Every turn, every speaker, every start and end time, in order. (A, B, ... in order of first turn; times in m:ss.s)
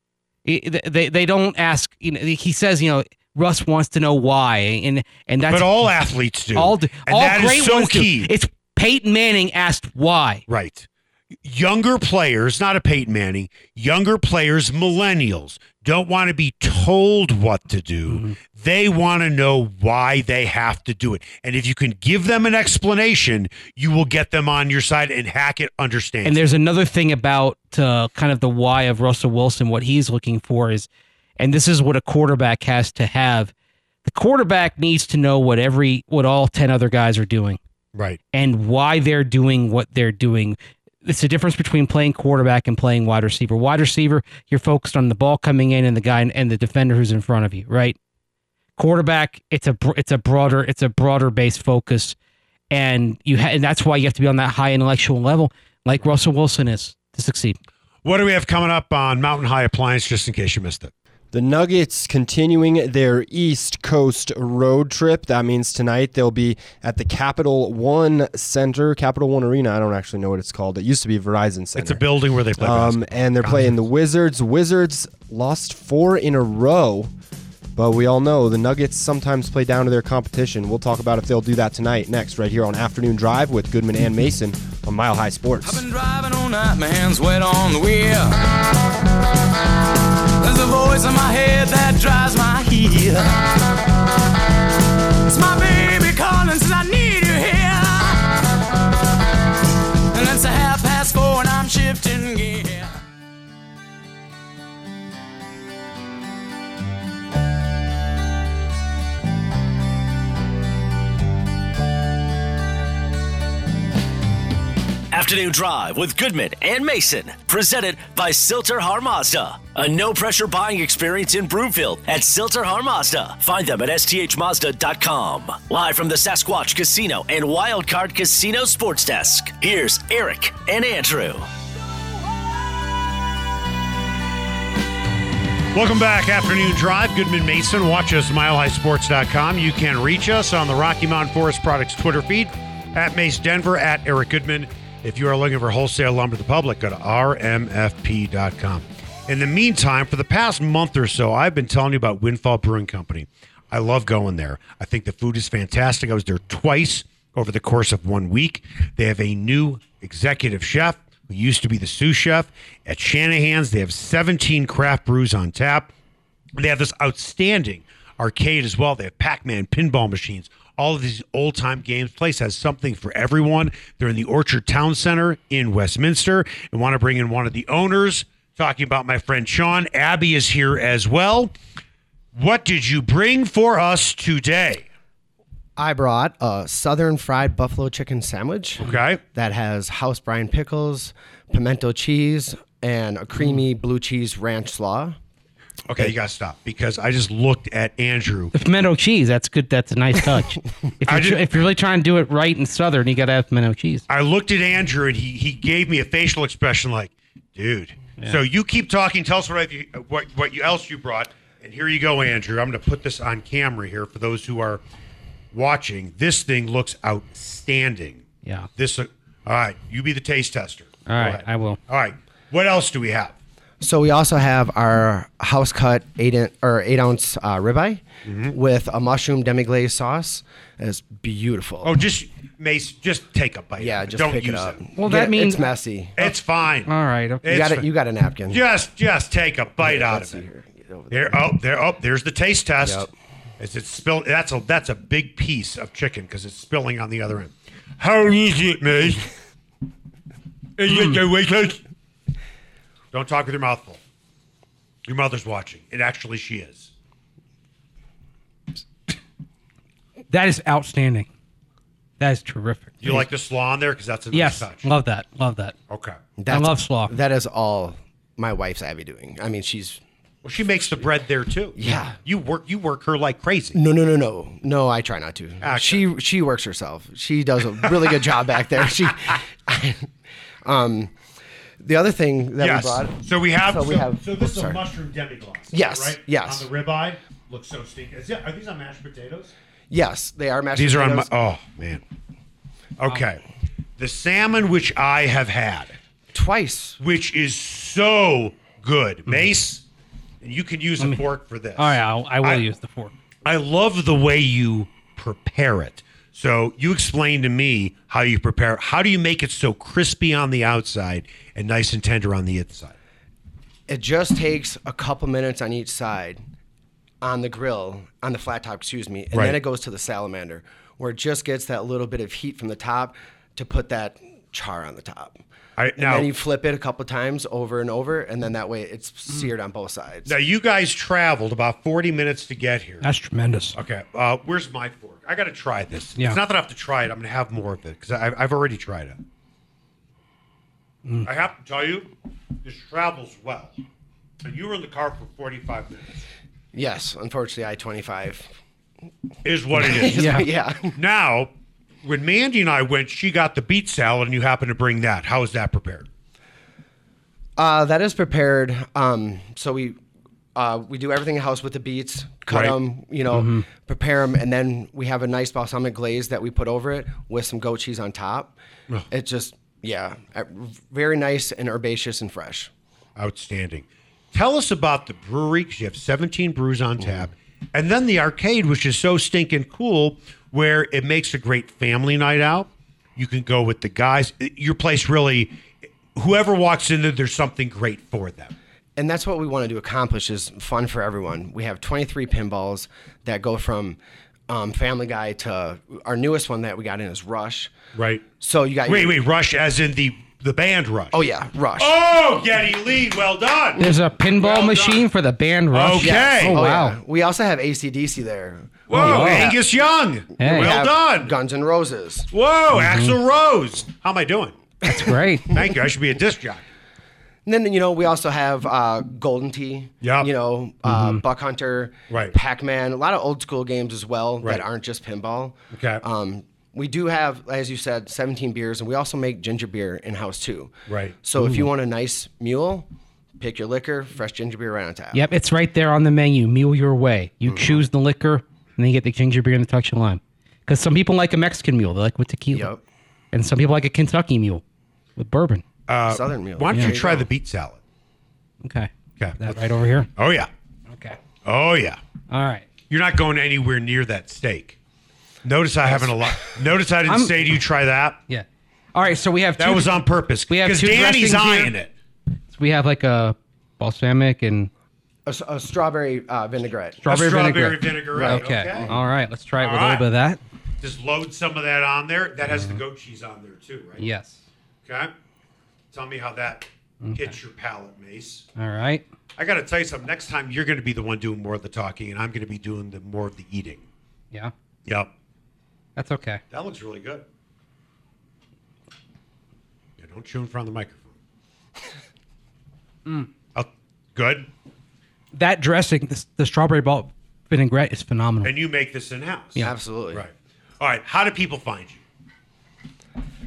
0:00.4-0:05.9 A
0:05.5-0:08.3 B
0:06.5-0:10.4 A
0:10.5-0:10.9 B
0:11.4-0:26.4 B
0:18.1-0:18.4 A
0:26.2-0:33.5 A
0:34.0-0:37.6 A
0:37.9-0:38.2 B
0:38.3-0:48.0 A
0:48.8-0:52.2 A
0:52.7-0:57.6 A
0:58.0-1:00.9 B
1:01.3-1:17.1 C
1:11.8-1:13.8 B
1:17.8-1:25.8 C
1:25.6-1:28.4 D
1:30.4-1:33.4 D
1:35.2-1:38.3 D
1:40.1-1:42.9 D
1:55.1-2:11.4 E
2:15.7-2:45.9 B
2:46.6-3:01.5 B
3:02.3-3:04.9 B
3:05.8-3:15.2 F
3:08.8-3:09.2 B
3:15.9-3:18.5 B
3:18.5-3:24.0 A
3:21.0-3:21.4 B
3:24.1-3:34.8 B
3:35.5-3:38.2 B
3:38.8-3:43.3 B
3:41.1-3:41.8 A
3:43.8-3:51.9 F
3:48.2-3:48.6 B
3:51.8-3:54.8 B
3:53.8-3:56.2 F
3:55.0-3:55.6 A
3:56.2-3:56.9 B
3:56.8-3:57.5 A
3:57.4-3:57.8 B
3:57.4-3:58.6 F
3:58.5-4:00.4 B
3:59.8-4:01.4 F
4:01.1-4:03.1 B
4:02.8-4:03.1 F
4:03.6-4:09.3 B
4:10.8-4:11.8 B
4:13.1-4:14.0 B
4:15.0-4:16.9 B
4:20.3-4:21.3 A
4:22.2-4:23.2 A
4:23.0-4:24.9 B
4:24.3-4:25.7 A
4:25.9-4:26.2 B
4:26.4-4:30.0 F
4:26.5-4:27.1 A
4:30.4-4:33.8 B
4:31.8-4:32.2 F
4:33.7-4:40.1 F
4:35.6-4:36.0 B
4:40.6-4:41.1 F
4:41.8-4:44.8 F
4:42.6-4:49.5 B
4:45.7-4:46.7 F
4:49.9-4:51.3 F
4:50.8-4:52.0 B
4:53.0-4:53.4 B
4:54.0-4:56.0 B
4:56.3-4:57.0 F
4:57.0-4:59.8 B
5:00.4-5:02.6 B
5:01.8-5:03.1 A
5:03.4-5:12.9 B
5:13.9-5:16.4 F
5:17.2-5:25.4 F
5:19.3-5:19.6 B
5:25.8-5:26.3 B
5:26.0-5:30.3 F
5:30.2-5:33.0 B
5:33.0-5:33.8 A
5:33.7-5:39.2 B
5:41.2-5:42.1 B
5:42.6-5:43.8 B
5:44.4-5:46.2 B
5:46.7-5:48.6 F
5:49.4-5:51.5 B
5:49.8-5:51.0 F
5:50.1-5:50.4 A
5:52.0-5:56.1 B
5:57.6-6:00.0 F
6:00.5-6:08.6 F
6:02.5-6:02.7 B
6:03.3-6:03.6 A
6:09.1-6:12.7 F
6:13.2-6:25.6 B
6:26.1-6:28.5 B
6:29.0-6:34.0 F
6:34.5-6:37.7 F
6:37.9-6:38.2 B
6:38.4-6:39.2 F
6:38.8-6:41.2 B
6:41.1-6:42.0 F
6:41.8-6:45.0 B
6:43.8-6:47.0 A
6:45.7-6:46.6 B
6:46.0-6:49.6 F
6:48.9-6:51.3 B
6:48.9-6:49.5 A
6:50.4-6:50.8 A
6:50.4-6:52.3 F
6:52.3-6:54.9 B
6:52.7-6:53.2 A
6:54.8-6:55.5 A
6:55.5-6:56.6 B
6:57.4-7:12.9 F
7:00.0-7:00.3 B
7:00.8-7:01.2 A
7:02.1-7:02.3 B
7:05.7-7:06.0 B
7:10.9-7:11.2 B
7:13.4-7:15.2 F
7:15.1-7:22.7 A
7:17.5-7:17.8 F
7:22.5-7:22.8 F
7:23.3-7:24.6 A
7:25.2-7:25.6 A
7:25.9-7:27.8 B
7:26.1-7:27.3 F
7:28.6-7:30.1 A
7:29.2-7:29.6 B
7:30.2-7:30.5 B
7:30.9-7:31.2 A
7:31.4-7:32.0 B
7:32.3-7:32.7 A
7:32.9-7:34.8 B
7:35.4-7:38.2 B
7:37.1-7:37.4 A
7:38.3-7:41.7 A
7:39.6-7:41.9 B
7:42.5-7:44.7 A
7:45.2-7:47.0 F
7:47.0-7:50.4 A
7:47.0-7:48.9 B
7:48.1-7:48.9 F
7:49.6-7:50.0 B
7:50.8-7:54.0 B
7:52.5-7:52.8 A
7:54.0-7:54.4 A
7:54.8-7:55.1 B
7:55.9-7:58.5 B
7:57.0-7:57.3 A
7:58.6-7:59.0 A
7:59.4-8:03.8 B
8:04.8-8:05.1 B
8:06.0-8:06.4 A
8:06.5-8:07.2 B
8:10.0-8:11.1 B
8:13.5-8:14.5 B
8:15.3-8:18.5 A
8:18.4-8:22.0 B
8:19.6-8:20.2 F